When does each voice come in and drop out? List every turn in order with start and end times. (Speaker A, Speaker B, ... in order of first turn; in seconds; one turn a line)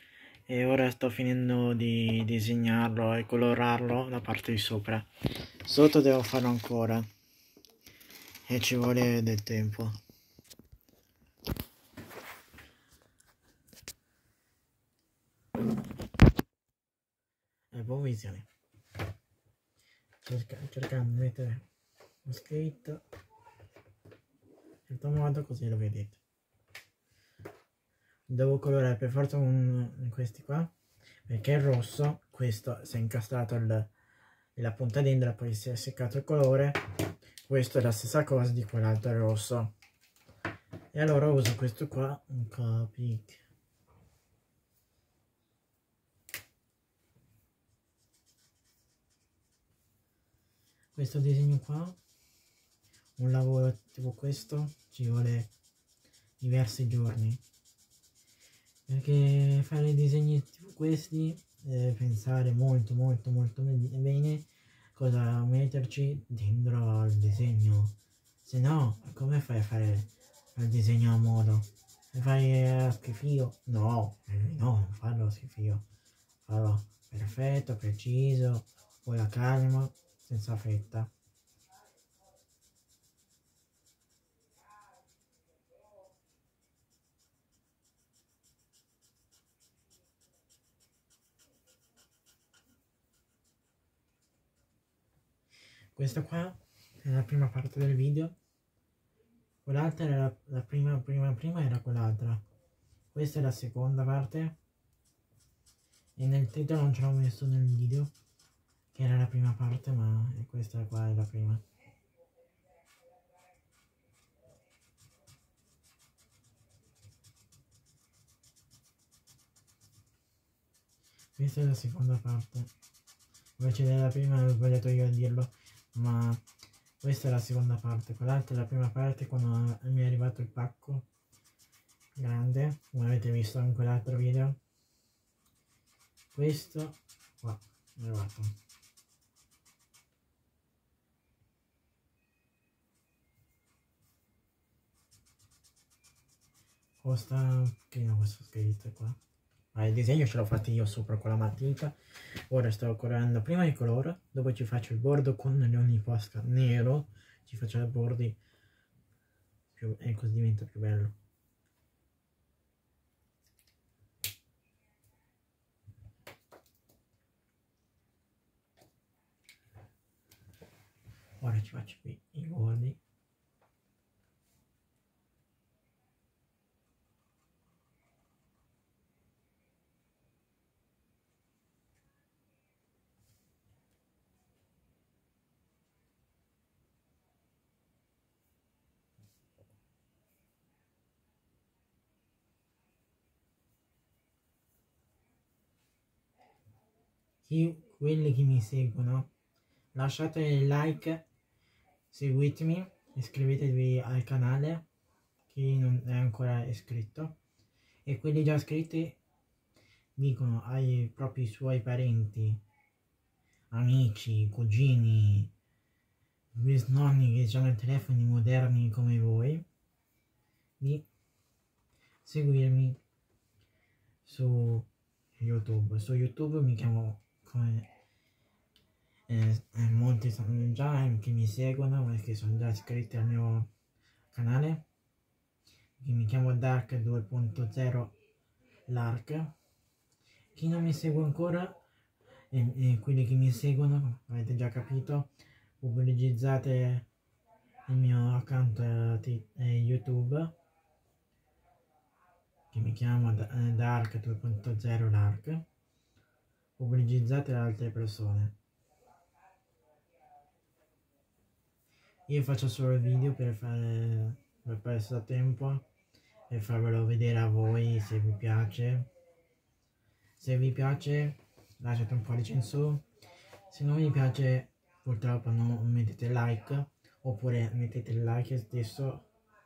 Speaker A: 0.5-5.1
Speaker A: 5.6-7.1
Speaker A: 8.4-10.0
Speaker A: 17.7-18.5
Speaker A: 20.2-21.6
Speaker A: 22.2-23.0
Speaker A: 24.9-26.2
Speaker A: 28.3-30.7
Speaker A: 31.3-33.9
Speaker A: 34.5-36.8
Speaker A: 37.4-39.7
Speaker A: 40.9-43.4
Speaker A: 50.9-52.0
Speaker A: 53.2-55.5
Speaker A: 56.4-57.4
Speaker A: 58.9-75.8
Speaker A: 76.4-81.1
Speaker A: 95.9-98.3
Speaker A: 99.6-102.4
Speaker A: 103.1-104.5
Speaker A: 106.2-108.1
Speaker A: 108.9-111.6
Speaker A: 121.3-122.7
Speaker A: 123.6-126.4
Speaker A: 127.0-131.1
Speaker A: 132.2-134.6
Speaker A: 136.3-138.5
Speaker A: 147.0-149.2
Speaker A: 149.7-151.9
Speaker A: 152.5-158.4
Speaker A: 159.7-161.1
Speaker A: 171.4-173.0
Speaker A: 197.4-199.3
Speaker A: 199.9-201.2
Speaker A: 202.1-204.8
Speaker A: 205.5-207.4
Speaker A: 208.1-209.2
Speaker A: 210.2-212.6
Speaker A: 213.7-215.5
Speaker A: 216.5-219.6
Speaker A: 220.8-221.1
Speaker A: 222.2-223.0
Speaker A: 224.2-227.9
Speaker A: 229.3-233.7
Speaker A: 234.3-234.8
Speaker A: 236.0-238.2
Speaker A: 238.9-239.6
Speaker A: 240.5-241.8
Speaker A: 242.5-247.1
Speaker A: 247.9-250.5
Speaker A: 252.7-255.6
Speaker A: 256.8-258.5
Speaker A: 262.3-265.9
Speaker A: 266.5-269.1
Speaker A: 270.4-273.0
Speaker A: 273.7-279.3